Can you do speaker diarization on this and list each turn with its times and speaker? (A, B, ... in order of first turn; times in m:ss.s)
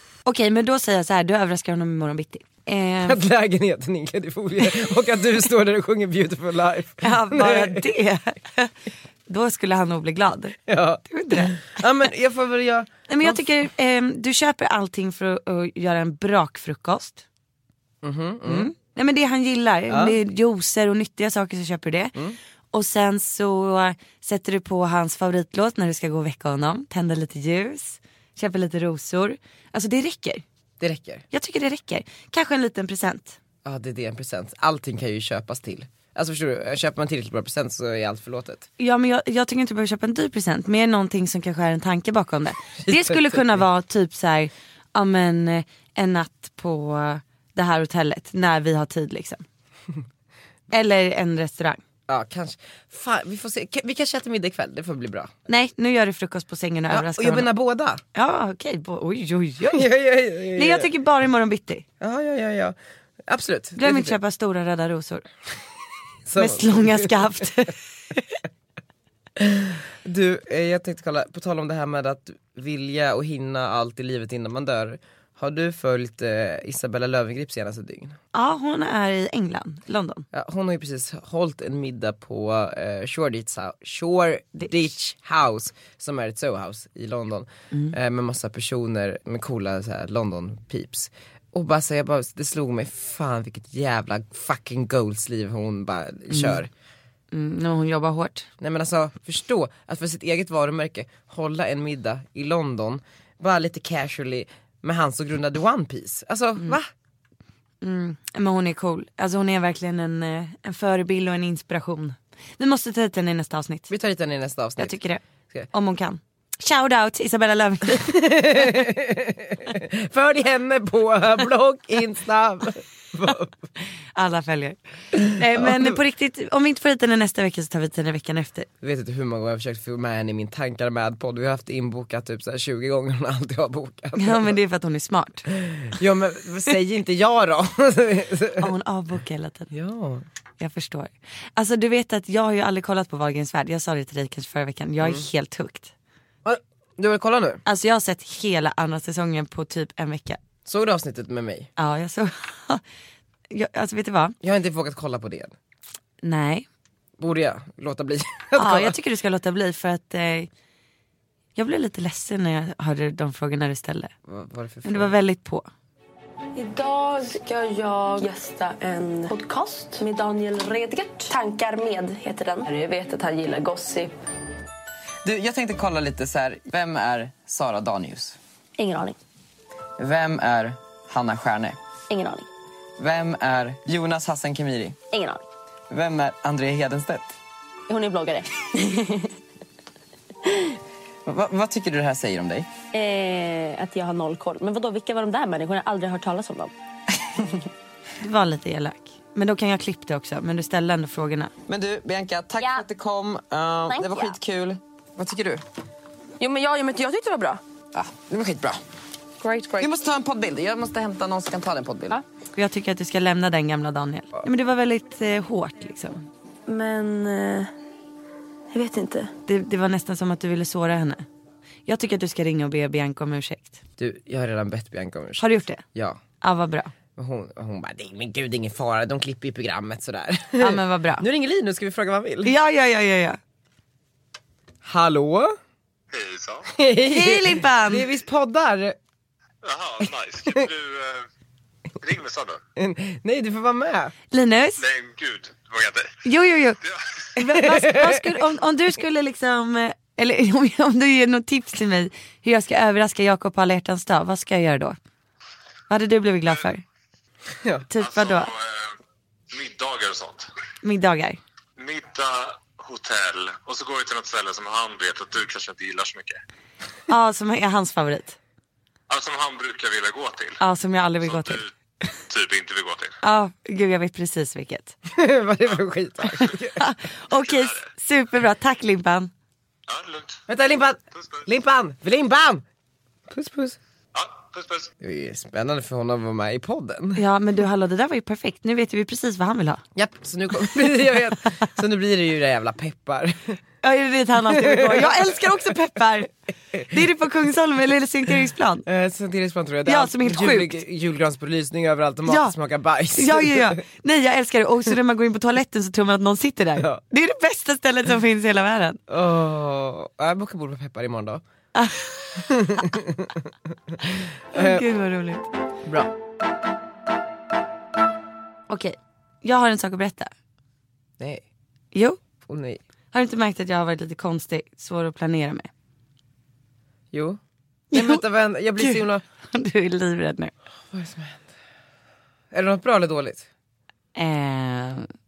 0:00.2-0:03.2 A
0:03.0-0:07.8 B
0:07.0-0:08.7 A
0:09.3-0:11.8 A
0:10.7-0:13.4 B
0:13.1-0:17.2 A
0:18.0-0:18.7 B
0:18.4-0:22.1 A
0:19.9-0:20.2 B
0:22.7-0:30.4 A
0:30.8-0:31.2 B
0:31.3-0:33.4 A
0:33.6-0:38.7 B
0:38.8-0:49.4 A
0:42.8-0:43.5 B
0:50.7-0:51.8 A
0:52.1-0:55.3 B
0:55.5-0:57.5 A
0:56.9-0:58.0 B
0:58.1-0:59.9 A
0:59.7-1:00.9 B
1:00.5-1:01.8 A
1:02.0-1:02.8 B
1:03.3-1:04.2 B
1:03.8-1:05.2 A
1:06.3-1:07.4 B
1:06.4-1:08.3 A
1:09.4-1:18.2 B
1:18.3-1:20.2 A
1:20.3-1:36.7 B
1:36.3-1:36.6 A
1:37.3-1:38.5 A
1:38.6-1:46.9 B
1:47.8-1:53.9 A
1:53.9-1:55.0 B
1:54.8-1:58.8 A
1:58.0-2:03.6 B
2:04.1-2:08.7 A
2:08.8-2:14.6 B
2:14.1-2:15.4 A
2:15.6-2:18.7 B
2:18.6-2:19.7 A
2:19.7-2:20.2 B
2:20.6-2:25.9 A
2:25.0-2:25.2 B
2:26.4-2:27.6 B
2:27.6-2:30.4 A
2:30.6-2:31.7 B
2:31.8-2:32.8 A
2:33.5-2:34.3 A
2:34.4-2:35.5 B
2:36.2-2:36.7 A
2:37.2-2:39.0 B
2:38.6-2:40.5 A
2:41.5-2:44.1 A
2:44.3-2:45.1 B
2:44.8-2:45.7 A
2:46.5-2:54.2 C
2:55.2-2:58.4 D
2:58.8-2:59.2 C
3:00.0-3:01.8 D
3:02.1-3:02.5 C
3:03.0-3:05.0 D
3:05.1-3:05.4 C
3:05.9-3:07.4 D
3:07.9-3:09.3 C
3:11.2-3:12.7 D
3:12.9-3:16.7 C
3:18.2-3:21.5 A
3:21.7-3:25.6 D
3:22.6-3:22.8 C
3:23.9-3:24.4 C
3:26.4-3:27.6 C
3:27.9-3:28.8 D
3:29.4-3:29.9 C
3:29.8-3:32.2 D
3:32.5-3:36.3 A
3:36.7-3:37.7 C
3:38.7-3:39.3 C
3:39.4-3:41.2 A
3:41.8-3:43.8 A
3:44.0-3:46.2 B
3:45.4-3:45.8 A
3:46.4-3:46.9 A
3:47.2-3:52.5 B
3:50.6-3:51.2 A
3:52.4-3:53.4 A
3:54.8-3:55.6 B
3:56.1-3:56.7 E
3:56.7-3:59.0 B
3:57.0-3:58.1 A
3:59.6-4:01.2 E
4:02.0-4:02.6 E
4:02.8-4:04.1 B
4:04.3-4:04.8 A
4:04.8-4:06.2 E
4:06.2-4:06.8 A
4:07.4-4:15.0 A
4:07.5-4:08.2 B
4:15.9-4:16.8 A
4:17.9-4:18.5 A
4:18.0-4:18.9 E
4:19.5-4:20.5 E
4:20.8-4:21.4 A
4:21.8-4:26.4 E
4:27.1-4:28.4 A
4:29.1-4:30.6 E
4:30.6-4:31.6 A
4:31.2-4:31.7 E
4:32.3-4:33.1 E
4:33.2-4:34.9 A
4:35.1-4:36.8 B
4:36.8-4:39.3 A
4:37.4-4:37.8 E
4:39.9-4:40.4 E
4:40.5-4:42.6 B
4:41.2-4:41.4 E
4:43.3-4:43.8 B
4:44.1-4:44.9 E
4:45.0-4:47.2 B
4:47.2-4:49.8 A
4:50.0-4:53.6 B
4:53.8-4:56.3 A
4:54.5-4:55.3 B
4:56.9-4:58.8 A
4:58.8-5:03.8 B
4:59.8-5:00.8 A
5:02.2-5:02.5 A
5:03.1-5:09.0 A
5:09.1-5:11.4 B
5:11.7-5:12.8 A
5:12.4-5:13.4 B
5:14.5-5:14.8 B
5:14.5-5:15.5 A
5:15.8-5:16.1 B
5:18.7-5:20.3 A
5:21.2-5:21.4 B
5:21.9-5:22.2 A
5:22.4-5:22.8 B
5:23.1-5:25.7 A
5:27.1-5:27.4 B
5:27.9-5:28.2 A
5:27.9-5:29.2 B
5:28.8-5:30.5 A
5:30.9-5:31.5 B
5:32.5-5:33.5 B
5:34.1-5:35.1 A